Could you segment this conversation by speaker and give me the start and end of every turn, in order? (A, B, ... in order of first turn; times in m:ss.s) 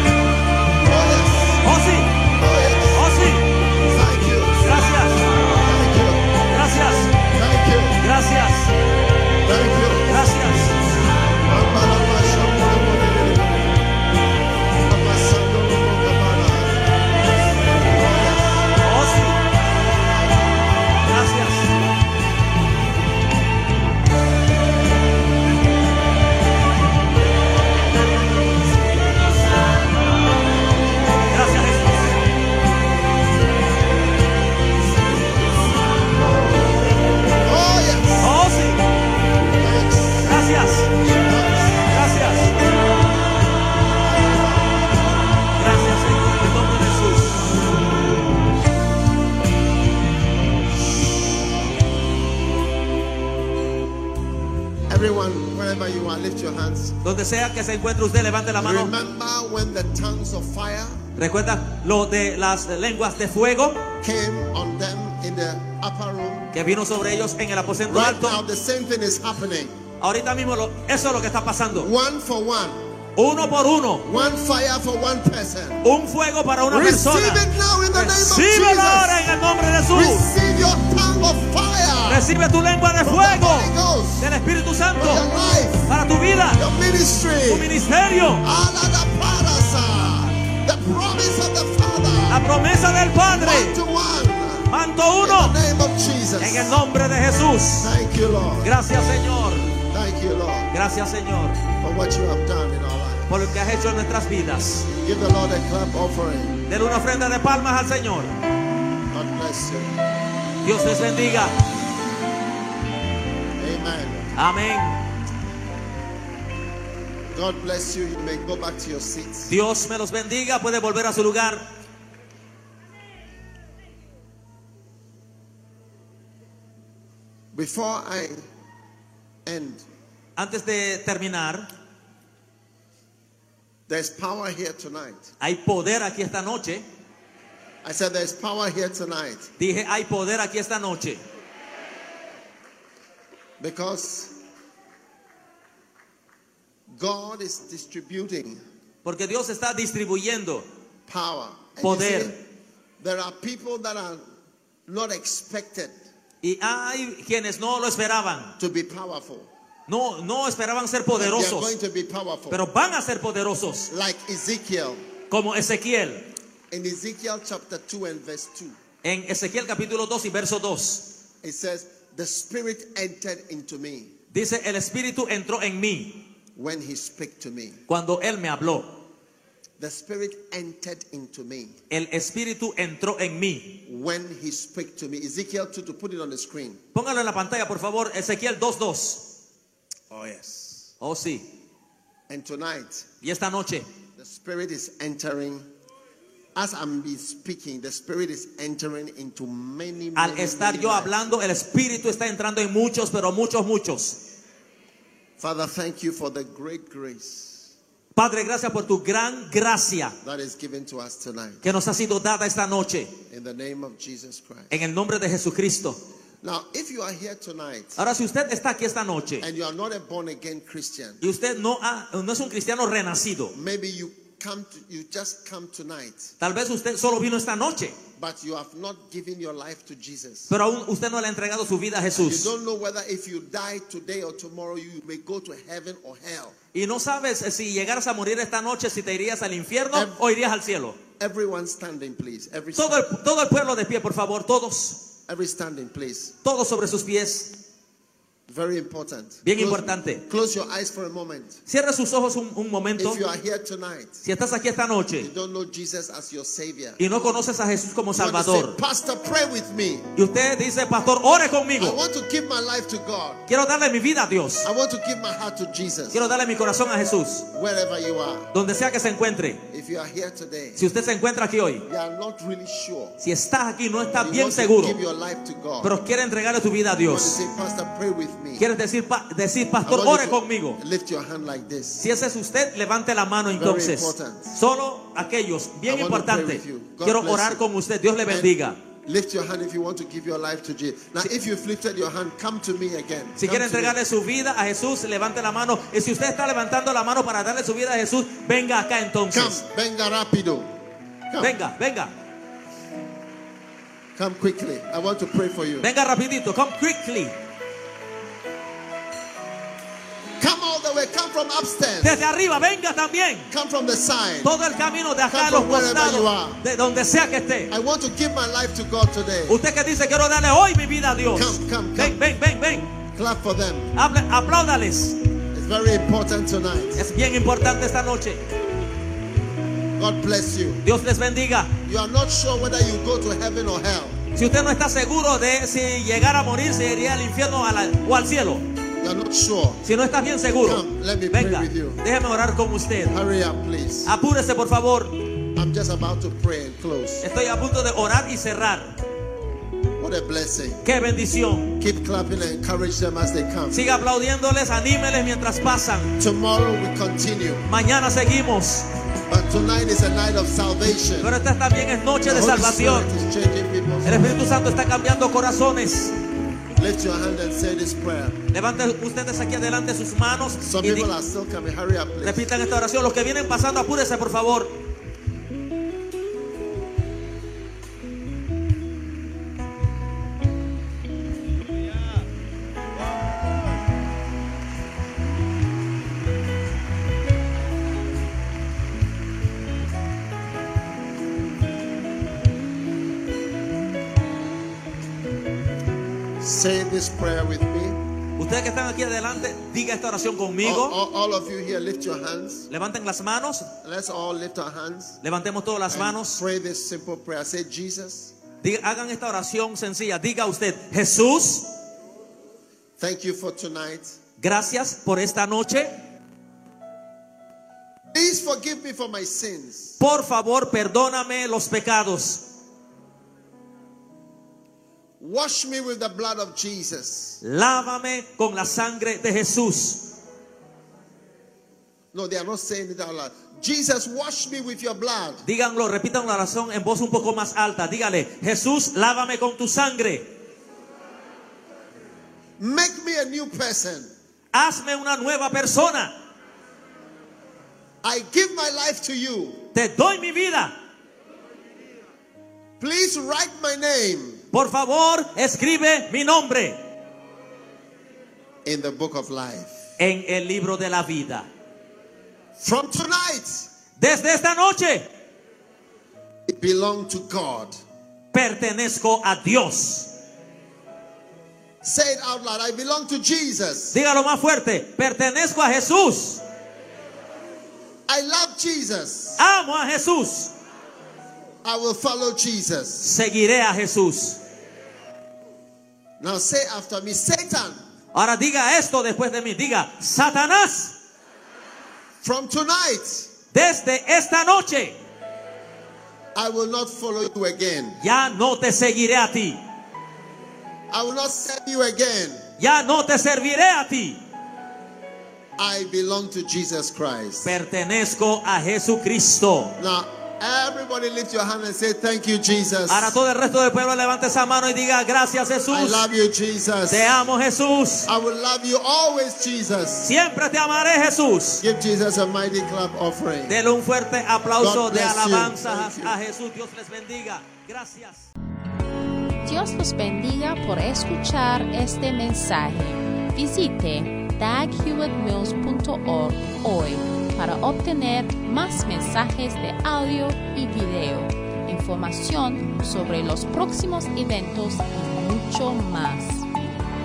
0:00.8-0:01.6 A
0:01.6-0:02.2 B
0:02.3-0:03.1 A
0:03.0-0:03.5 B
0:03.8-0:04.9 A
0:04.6-0:05.3 B
0:05.4-0:06.3 A
0:06.5-0:07.1 B
0:07.2-0:08.0 A
0:08.0-0:08.7 B
0:09.4-0:10.3 A
0:10.1-0:10.8 B
0:11.5-0:13.8 A
0:14.9-0:17.0 A
0:17.6-0:18.8 A
0:18.8-0:19.4 B
0:21.0-0:21.7 B
0:31.3-0:32.1 B
0:36.0-0:38.3 A
0:38.2-0:38.8 B
0:39.5-0:40.4 A
0:40.2-0:40.9 B
0:41.1-0:42.0 A
0:41.9-0:42.6 B
0:44.0-0:45.1 A
0:45.6-0:47.4 B
0:54.9-0:57.0 A
0:57.0-0:58.9 B
0:58.6-1:01.0 A
1:01.2-1:03.9 B
1:04.0-1:06.5 A
1:06.5-1:08.4 B
1:07.9-1:09.8 A
1:10.0-1:11.9 B
1:11.8-1:12.8 A
1:13.2-1:14.1 B
1:14.0-1:15.8 A
1:15.8-1:20.3 B
1:16.7-1:19.3 A
1:19.9-1:22.3 A
1:22.1-1:25.2 B
1:23.0-1:24.3 A
1:25.0-1:25.9 A
1:25.9-1:26.6 B
1:26.6-1:27.7 A
1:27.5-1:28.4 B
1:28.4-1:32.5 A
1:32.3-1:33.8 B
1:33.3-1:36.8 A
1:34.7-1:35.6 B
1:36.4-1:38.0 B
1:37.8-1:38.8 A
1:38.6-1:39.7 B
1:39.7-1:40.7 A
1:40.7-1:41.6 B
1:41.8-1:43.5 A
1:43.3-1:44.9 B
1:44.9-1:46.6 A
1:46.7-1:48.3 B
1:49.1-1:49.9 A
1:50.6-1:51.6 B
1:53.6-1:54.4 A
1:54.4-1:55.0 B
1:57.3-1:59.5 A
1:59.5-2:01.7 B
2:07.5-2:08.4 A
2:09.5-2:09.8 A
2:10.4-2:11.7 B
2:13.9-2:15.3 A
2:15.4-2:16.8 B
2:17.8-2:19.5 A
2:19.6-2:21.2 B
2:23.6-2:24.3 A
2:27.0-2:28.6 A
2:29.0-2:30.6 B
2:31.1-2:32.4 A
2:31.8-2:32.3 B
2:33.0-2:34.2 A
2:34.9-2:36.0 A
2:36.4-2:38.5 B
2:38.6-2:39.5 A
2:39.9-2:41.7 B
2:41.2-2:42.6 A
2:42.5-2:43.9 B
2:43.9-2:45.0 A
2:45.3-2:46.2 B
2:46.7-2:48.8 A
2:49.0-2:51.1 B
2:51.4-2:54.1 A
2:54.3-2:56.3 B
2:56.6-2:57.8 A
2:57.9-2:58.9 B
2:59.8-3:01.8 A
3:01.9-3:03.8 B
3:03.9-3:06.8 A
3:07.0-3:09.3 B
3:10.1-3:10.9 A
3:11.0-3:11.4 B
3:12.3-3:13.1 A
3:13.2-3:13.9 B
3:14.2-3:15.7 A
3:16.6-3:21.3 A
3:20.2-3:24.2 B
3:25.4-3:27.7 A
3:28.2-3:30.2 B
3:30.2-3:31.7 A
3:31.6-3:33.1 B
3:33.3-3:34.8 A
3:34.7-3:36.0 B
3:36.4-3:38.0 A
3:38.0-3:39.5 B
3:39.4-3:41.2 A
3:41.2-3:43.5 B
3:43.5-3:46.3 A
3:46.4-3:48.0 B
3:48.2-3:50.5 A
3:50.5-3:52.5 B
3:52.2-3:56.6 A
3:56.7-4:01.0 B
3:59.9-4:00.2 A
4:01.2-4:03.1 A
4:02.8-4:05.0 B
4:05.3-4:06.4 A
4:06.4-4:07.6 B
4:08.5-4:11.6 A
4:09.4-4:10.2 B
4:11.7-4:13.2 B
4:13.0-4:14.2 A
4:14.2-4:15.3 B
4:15.2-4:17.0 A
4:17.0-4:18.8 B
4:18.2-4:20.1 A
4:20.2-4:22.0 B
4:21.8-4:23.4 A
4:23.5-4:24.7 B
4:24.6-4:26.3 A
4:26.1-4:27.5 B
4:27.5-4:28.5 A
4:28.5-4:29.6 B
4:29.7-4:30.8 A
4:30.8-4:31.9 B
4:31.9-4:33.2 A
4:33.2-4:35.0 B
4:34.2-4:36.0 A
4:35.8-4:37.4 B
4:37.1-4:38.7 A
4:38.6-4:40.8 B
4:39.8-4:42.0 A
4:42.0-4:48.8 B
4:43.6-4:44.6 A
4:45.9-4:47.6 A
4:49.1-4:54.0 A
4:53.4-4:59.6 B
4:59.3-5:00.7 A
5:01.3-5:01.6 A
5:01.4-5:02.1 B
5:04.2-5:05.9 A
5:05.8-5:07.4 B
5:10.4-5:12.2 A
5:12.0-5:13.5 B
5:13.5-5:14.6 A
5:14.4-5:17.7 B
5:15.3-5:16.6 A
5:17.7-5:19.6 A
5:19.5-5:22.9 B
5:21.3-5:22.2 A
5:23.1-5:24.0 A
5:24.0-5:25.2 B
5:25.5-5:27.0 A
5:27.0-5:28.4 B
5:30.0-5:30.8 A
5:30.8-5:31.8 B
5:31.8-5:34.2 A
5:34.4-5:38.7 B
5:39.0-5:39.8 A
5:39.8-5:43.2 B
5:40.6-5:42.0 A
5:43.1-5:44.1 A
5:44.1-5:45.2 B
5:45.6-5:47.3 A
5:47.2-5:49.0 B
5:50.0-5:50.8 A
5:50.8-5:51.8 B
5:51.8-5:53.8 A
5:53.7-5:56.1 B
5:56.2-5:57.7 A
5:57.7-5:58.9 B
5:59.3-6:01.3 A
6:01.2-6:03.1 B
6:02.3-6:04.5 A
6:04.0-6:06.2 B
6:06.8-6:08.4 A
6:08.5-6:11.1 B
6:10.6-6:12.5 A
6:12.2-6:14.8 B
6:36.4-6:38.0 A
6:38.4-6:41.0 B
6:40.6-6:42.7 A
6:42.7-6:43.7 B
6:43.8-6:45.2 A
6:45.2-6:46.4 B
6:45.9-6:48.3 A
6:48.6-6:51.7 B
6:53.0-6:54.1 A
6:54.4-6:55.9 B
6:58.1-7:00.0 A
7:00.0-7:02.5 B
7:05.2-7:07.4 A
7:07.4-7:10.1 B
7:12.1-7:15.4 A
7:15.4-7:20.3 B
7:22.6-7:24.1 A
7:24.5-7:26.2 B
7:28.0-7:29.6 A
7:29.7-7:30.8 B
7:32.8-7:34.4 A
7:34.5-7:36.8 B
7:38.6-7:39.8 A
7:40.0-7:41.5 B
7:42.6-7:43.7 A
7:44.0-7:45.1 B
7:46.5-7:47.8 A
7:48.3-7:50.1 B
7:51.8-7:54.0 A
7:53.9-7:56.4 B
7:58.1-7:59.4 A
7:59.4-8:00.5 B
8:01.6-8:03.1 A
8:03.0-8:04.4 B
8:06.2-8:07.8 A
8:08.1-8:11.0 B
8:12.2-8:13.3 A
8:13.5-8:15.0 B
8:16.4-8:18.0 A
8:18.0-8:19.6 B
8:20.9-8:22.4 A
8:22.6-8:24.2 B
8:25.6-8:27.6 A
8:27.4-8:29.8 B
8:29.8-8:33.2 A
8:32.9-8:36.0 B
8:35.7-8:37.2 A
8:36.9-8:38.1 B
8:38.1-8:40.1 A
8:40.0-8:41.6 B
8:41.6-8:43.6 A
8:43.5-8:48.3 B
8:44.6-8:46.2 A
8:49.4-9:06.4 C